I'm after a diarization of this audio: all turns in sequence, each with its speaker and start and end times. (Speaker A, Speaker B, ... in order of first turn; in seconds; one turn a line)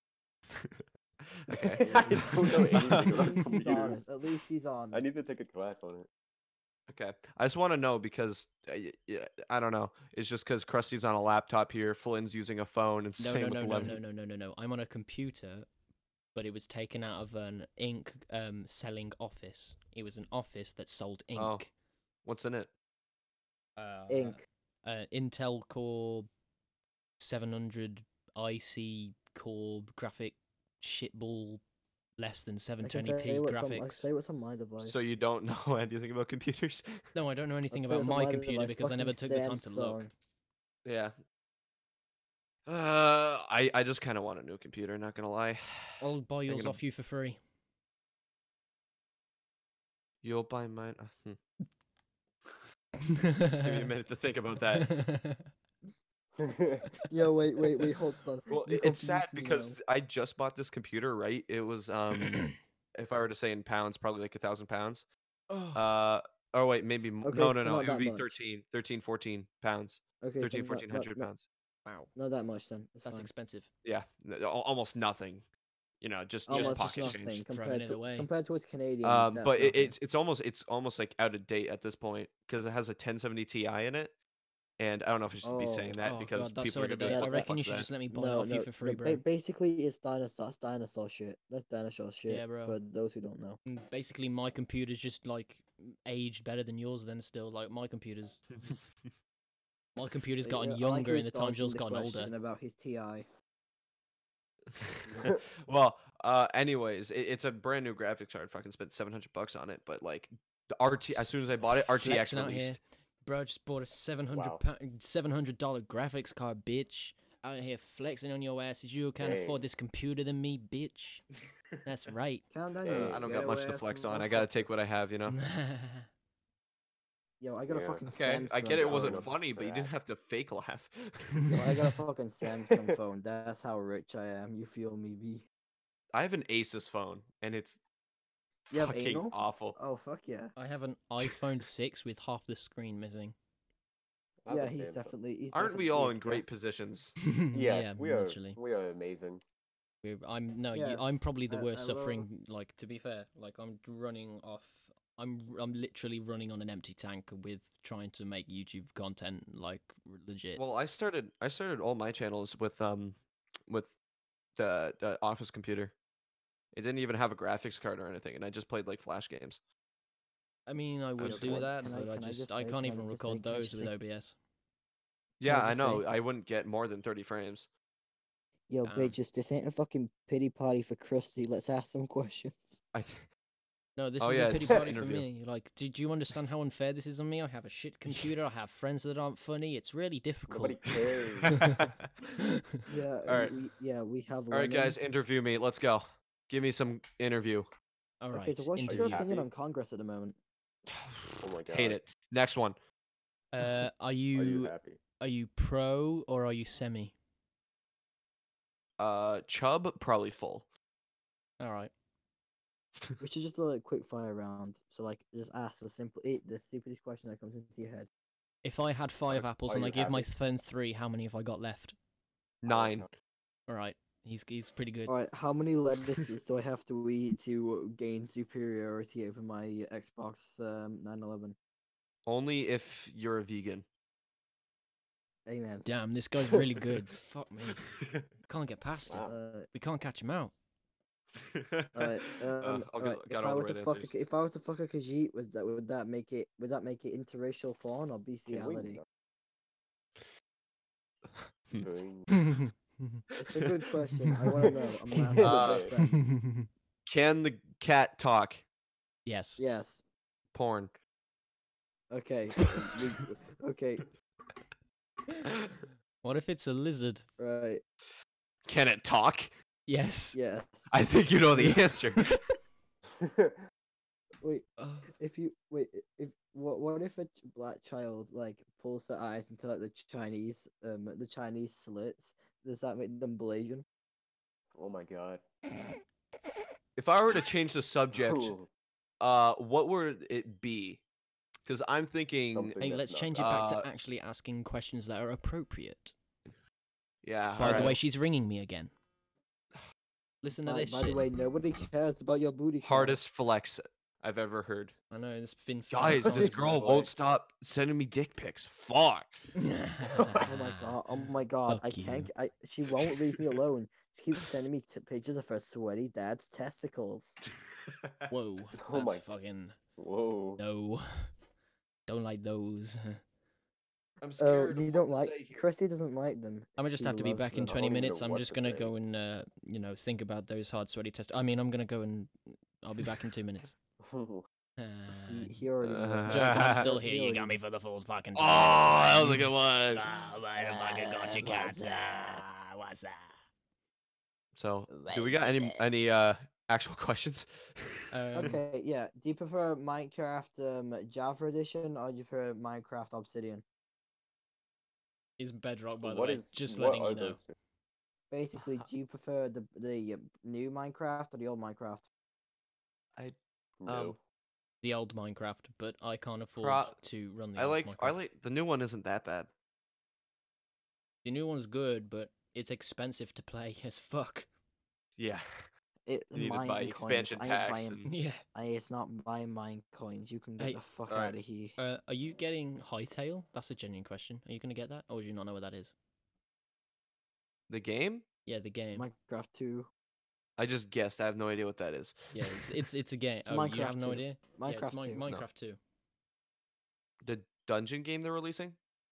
Speaker A: 0.5-3.3
Speaker B: 1.5-4.0
Speaker C: 1.8-5.1
Speaker B: 4.9-6.1
Speaker A: 6.9-14.0
Speaker D: 13.2-15.7
Speaker D: 16.3-21.7
Speaker A: 21.4-21.6
Speaker A: 22.2-22.7
Speaker D: 23.8-26.3
Speaker C: 24.1-24.4
Speaker D: 27.2-31.6
Speaker D: 32.2-34.1
Speaker C: 32.8-35.1
Speaker A: 34.8-37.0
Speaker D: 37.1-40.1
Speaker C: 37.7-40.1
Speaker A: 40.8-41.1
Speaker A: 42.7-46.8
Speaker D: 46.0-47.4
Speaker A: 50.2-51.4
Speaker D: 53.1-53.9
Speaker A: 53.5-54.9
Speaker D: 54.8-55.5
Speaker B: 56.4-56.9
Speaker C: 57.1-59.8
Speaker A: 58.5-65.0
Speaker D: 62.3-62.5
Speaker D: 65.5-65.8
Speaker A: 65.7-71.5
Speaker C: 67.2-68.3
Speaker C: 70.2-71.3
Speaker C: 72.1-73.3
Speaker D: 73.0-73.7
Speaker A: 73.8-75.5
Speaker A: 76.0-77.4
Speaker C: 76.5-79.9
Speaker D: 76.5-78.3
Speaker A: 79.0-84.1
Speaker A: 84.8-87.9
Speaker C: 85.4-86.0
Speaker D: 86.0-89.2
Speaker C: 87.0-87.5
Speaker C: 88.1-93.6
Speaker D: 92.3-92.8
Speaker D: 93.7-98.4
Speaker D: 100.0-102.3
Speaker C: 100.4-103.3
Speaker A: 104.7-112.8
Speaker B: 105.1-105.4
Speaker D: 111.0-121.2
Speaker B: 114.3-114.6
Speaker B: 119.2-119.6
Speaker D: 121.8-122.4
Speaker C: 122.5-124.7
Speaker B: 122.8-123.3
Speaker A: 122.9-125.4
Speaker D: 125.3-126.1
Speaker C: 127.4-129.3
Speaker B: 127.7-128.0
Speaker A: 128.1-131.6
Speaker B: 128.8-129.9
Speaker C: 131.5-135.4
Speaker A: 136.1-137.8
Speaker A: 138.7-139.8
Speaker C: 138.7-140.5
Speaker D: 140.6-143.3
Speaker B: 144.4-145.1
Speaker C: 144.5-146.4
Speaker A: 145.5-147.2
Speaker D: 147.2-148.6
Speaker B: 147.5-149.4
Speaker D: 150.0-160.6
Speaker C: 150.7-152.2
Speaker A: 160.6-163.9
Speaker A: 164.6-165.9
Speaker A: 166.7-169.6
Speaker D: 170.7-174.3
Speaker A: 171.2-171.7
Speaker C: 171.2-173.9
Speaker A: 175.4-177.7
Speaker C: 175.4-176.0
Speaker C: 178.7-182.8
Speaker D: 178.8-179.2
Speaker A: 182.9-183.2
Speaker D: 183.9-190.8
Speaker A: 184.2-185.3
Speaker B: 190.5-191.5
Speaker A: 191.5-192.1
Speaker D: 191.5-191.8
Speaker D: 192.4-192.6
Speaker C: 192.9-195.0
Speaker A: 193.3-193.5
Speaker A: 194.5-197.7
Speaker D: 198.2-199.2
Speaker C: 198.3-200.4
Speaker B: 198.8-199.5
Speaker A: 200.9-202.8
Speaker B: 201.4-202.0
Speaker D: 203.5-207.1
Speaker B: 204.3-205.0
Speaker A: 209.0-210.7
Speaker D: 211.6-211.9
Speaker C: 213.2-218.1
Speaker D: 218.6-221.9
Speaker B: 219.3-220.3
Speaker A: 222.6-223.1
Speaker B: 222.7-223.1
Speaker D: 223.7-225.1
Speaker C: 225.1-231.6
Speaker A: 232.2-233.8
Speaker C: 235.4-235.8
Speaker D: 235.8-237.8
Speaker A: 237.9-238.2
Speaker D: 238.4-240.5
Speaker B: 239.1-239.3
Speaker C: 239.2-239.7
Speaker A: 241.3-244.1
Speaker C: 241.9-249.0
Speaker B: 248.5-249.0
Speaker A: 251.3-251.9
Speaker B: 251.8-252.3
Speaker D: 252.3-253.2
Speaker C: 253.4-256.3
Speaker D: 254.2-255.4
Speaker B: 255.3-255.9
Speaker A: 255.4-255.9
Speaker D: 256.0-256.7
Speaker A: 257.1-258.6
Speaker D: 259.2-259.6
Speaker C: 259.6-260.0
Speaker A: 260.5-260.9
Speaker C: 262.1-264.1
Speaker A: 265.5-265.7
Speaker D: 266.2-267.2
Speaker C: 267.4-267.8
Speaker A: 268.6-269.5
Speaker D: 269.9-270.4
Speaker C: 270.3-270.9
Speaker A: 270.9-272.4
Speaker B: 273.2-273.6
Speaker C: 274.4-283.8
Speaker D: 274.8-275.1
Speaker B: 284.8-285.4
Speaker A: 287.0-288.6
Speaker B: 288.1-288.7
Speaker A: 289.2-291.0
Speaker A: 291.6-292.8
Speaker B: 292.4-293.5
Speaker D: 292.8-296.1
Speaker A: 293.3-293.9
Speaker A: 297.2-298.0
Speaker D: 297.6-298.9
Speaker C: 297.7-297.9
Speaker D: 300.4-301.3
Speaker C: 300.6-303.2
Speaker A: 302.8-304.9
Speaker D: 305.1-306.7
Speaker A: 305.9-309.5
Speaker B: 306.2-307.1
Speaker D: 309.6-312.3
Speaker B: 310.2-310.5
Speaker C: 310.4-317.4
Speaker A: 313.0-313.5
Speaker A: 317.7-318.3
Speaker D: 318.3-319.8
Speaker B: 318.8-319.2
Speaker B: 320.0-320.6
Speaker D: 320.6-321.3
Speaker D: 322.1-323.2
Speaker A: 324.2-325.6
Speaker C: 324.4-327.8
Speaker D: 326.8-333.7
Speaker B: 327.6-328.9
Speaker B: 334.0-334.4
Speaker D: 334.8-335.6
Speaker C: 335.2-337.6
Speaker A: 335.8-336.9
Speaker D: 336.3-343.3
Speaker A: 338.4-340.1
Speaker C: 340.6-342.4
Speaker A: 344.5-348.6
Speaker C: 344.9-345.5
Speaker D: 348.1-348.6
Speaker C: 348.3-353.6
Speaker D: 355.4-357.4
Speaker B: 356.0-357.5
Speaker C: 358.3-362.1
Speaker A: 358.6-358.8
Speaker A: 363.2-364.2
Speaker B: 363.8-364.2
Speaker D: 364.8-368.2
Speaker A: 366.6-367.0
Speaker A: 367.6-369.5
Speaker D: 371.2-374.5
Speaker A: 375.2-375.7
Speaker C: 376.1-378.0
Speaker A: 376.3-378.1
Speaker D: 378.0-378.4
Speaker C: 378.5-381.8
Speaker A: 381.1-381.4
Speaker D: 381.8-385.9
Speaker A: 387.7-388.2
Speaker D: 388.4-389.1
Speaker C: 388.9-389.9
Speaker A: 390.6-392.6
Speaker D: 392.3-395.8
Speaker C: 393.4-395.2
Speaker A: 397.2-398.8